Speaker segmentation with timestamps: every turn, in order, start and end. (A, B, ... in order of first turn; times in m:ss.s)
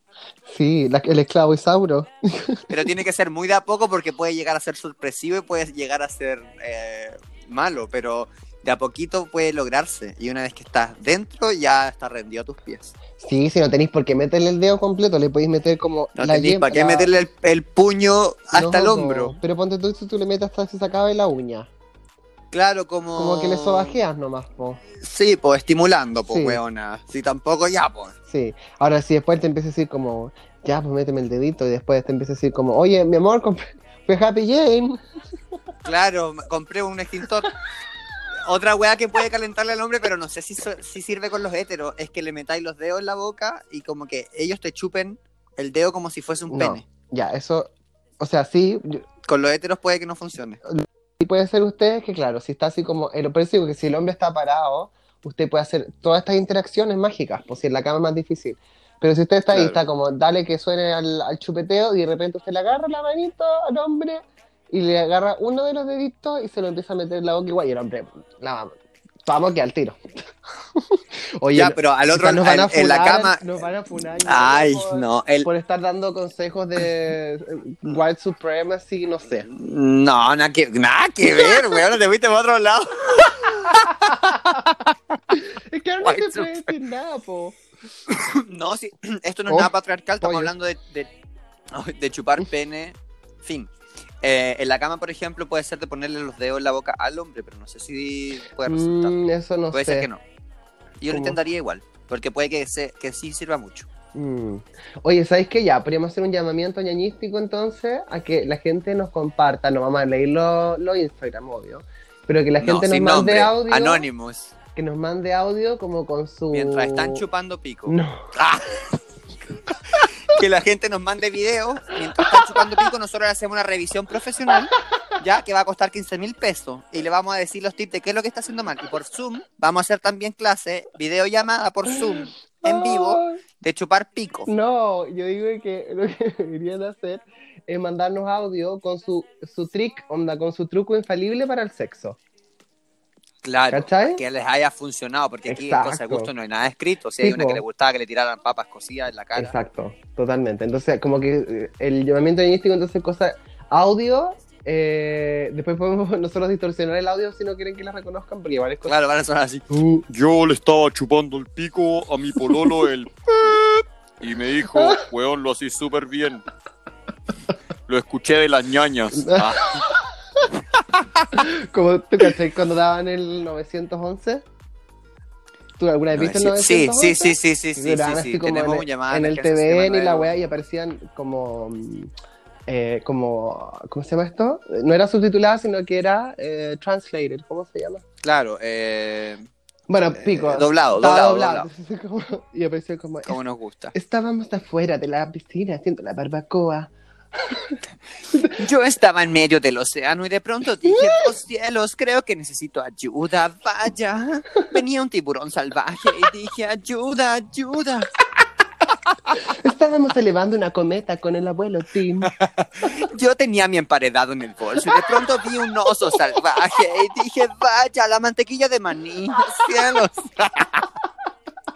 0:00.5-0:02.7 A
0:02.7-0:12.9 B
0:13.2-0:17.1 A
0:16.2-0:19.4 B
0:18.5-0:21.7 A
0:22.5-0:24.0 B
0:23.1-0:24.8 A
0:25.0-0:28.1 B
0:26.2-0:26.6 A
0:28.3-0:35.0 A
0:35.8-0:37.5 B
0:38.4-0:46.8 B
0:46.5-0:49.0 A
0:49.2-0:50.6 B
0:50.7-1:08.7 A
0:59.5-0:59.8 B
1:09.2-1:10.0 A
1:10.7-1:19.5 A
1:11.5-1:13.4 B
1:14.2-1:15.5 B
1:19.4-1:24.9 B
1:21.4-1:21.6 A
1:23.6-1:24.5 A
1:25.3-1:27.6 A
1:26.0-1:26.7 B
1:28.1-1:31.1 B
1:29.5-1:30.5 A
1:31.7-1:33.7 B
1:34.2-1:39.1 B
1:38.7-1:40.1 A
1:39.7-1:40.2 B
1:41.0-1:43.9 B
1:41.1-1:41.4 A
1:44.1-1:54.0 A
1:52.6-1:54.5 B
1:54.7-1:57.2 A
1:56.5-1:59.0 B
1:57.9-1:58.3 A
1:59.9-2:14.5 B
2:12.2-2:13.4 A
2:14.5-2:22.2 A
2:23.4-2:29.5 B
2:23.7-2:24.2 A
2:25.5-2:26.3 A
2:27.2-2:27.6 A
2:29.4-2:39.0 A
2:38.8-2:39.6 B
2:39.7-2:40.1 A
2:40.1-2:43.2 C
2:44.2-2:46.4 C
2:44.7-2:45.0 A
2:47.9-2:49.3 C
2:48.7-2:49.6 B
2:49.2-2:50.5 A
2:51.3-2:54.4 A
2:55.8-3:02.1 A
2:56.1-3:00.3 B
3:02.7-3:08.0 A
3:08.2-3:09.4 B
3:09.9-3:13.4 A
3:10.2-3:11.7 B
3:13.2-3:13.9 B
3:13.9-3:17.8 A
3:18.3-3:18.6 A
3:18.5-3:28.1 B
3:29.4-3:32.3 A
3:32.2-3:40.9 B